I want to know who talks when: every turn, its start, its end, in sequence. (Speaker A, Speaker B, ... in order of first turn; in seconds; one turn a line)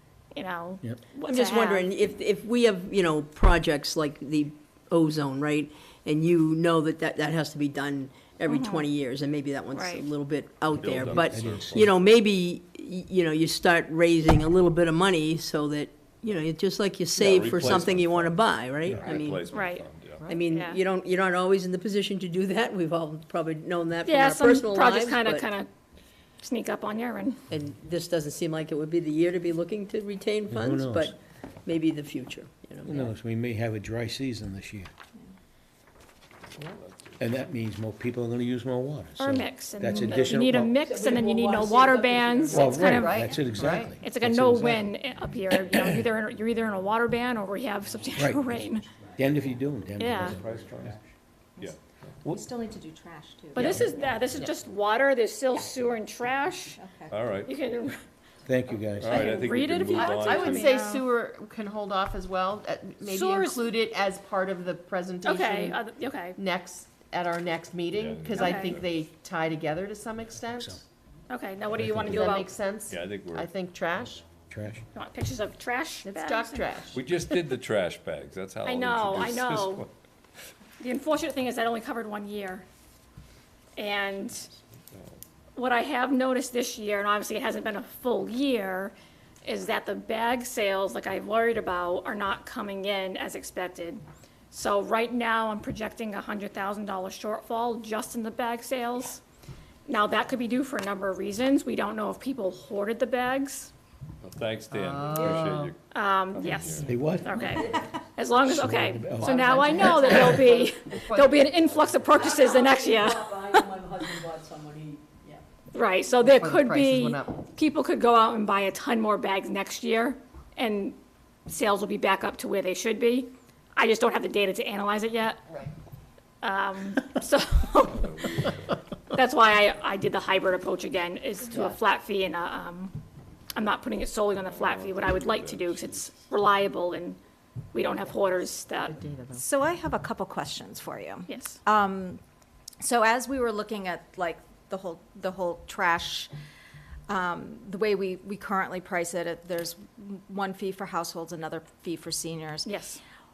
Speaker A: 0.3-1.9
Speaker B: 1.2-19.5
Speaker A: 8.5-8.9
Speaker A: 9.7-10.1
Speaker C: 10.7-12.1
Speaker D: 11.1-11.8
Speaker C: 17.1-20.3
Speaker A: 19.5-19.9
Speaker B: 20.3-25.5
Speaker A: 20.4-20.8
Speaker A: 24.1-25.7
Speaker A: 26.4-27.4
Speaker B: 27.5-33.1
Speaker D: 30.5-31.1
Speaker D: 32.9-34.9
Speaker C: 36.6-37.3
Speaker D: 37.2-40.8
Speaker A: 39.2-43.3
Speaker B: 40.8-42.6
Speaker D: 42.5-44.9
Speaker E: 42.5-44.0
Speaker A: 44.0-48.9
Speaker E: 44.5-44.9
Speaker D: 48.2-48.6
Speaker D: 49.2-50.9
Speaker A: 50.0-50.4
Speaker C: 50.2-51.0
Speaker F: 51.6-53.9
Speaker C: 51.6-52.1
Speaker A: 53.5-56.8
Speaker F: 56.8-57.2
Speaker C: 57.1-57.5
Speaker A: 57.5-58.0
Speaker D: 58.5-59.4
Speaker C: 59.0-60.7
Speaker A: 59.1-61.1
Speaker E: 59.9-65.8
Speaker A: 63.1-63.6
Speaker A: 65.2-66.4
Speaker E: 66.4-70.8
Speaker C: 67.9-69.0
Speaker A: 68.3-68.8
Speaker A: 71.3-72.5
Speaker D: 71.8-72.2
Speaker E: 72.0-74.3
Speaker C: 72.9-73.5
Speaker D: 74.5-74.8
Speaker A: 75.0-76.8
Speaker E: 76.0-77.0
Speaker C: 76.9-79.9
Speaker A: 78.6-79.9
Speaker A: 80.8-82.7
Speaker A: 83.8-84.5
Speaker C: 84.9-85.2
Speaker A: 85.6-99.2
Speaker A: 99.9-103.7
Speaker C: 104.2-105.8
Speaker E: 104.7-105.7
Speaker A: 105.9-113.7
Speaker C: 106.3-106.9
Speaker D: 106.8-107.4
Speaker F: 107.5-107.9
Speaker D: 108.5-110.5
Speaker E: 109.2-112.0
Speaker B: 112.2-115.4
Speaker A: 115.7-125.4
Speaker E: 116.2-117.4
Speaker A: 126.4-128.1
Speaker C: 127.9-128.8
Speaker A: 129.1-133.0
Speaker E: 131.5-131.8
Speaker A: 133.5-137.2
Speaker C: 134.4-136.2
Speaker A: 137.7-139.0
Speaker E: 138.8-139.4
Speaker F: 139.3-142.2
Speaker A: 141.3-141.6
Speaker F: 142.8-146.3
Speaker F: 147.1-152.7
Speaker A: 152.7-153.0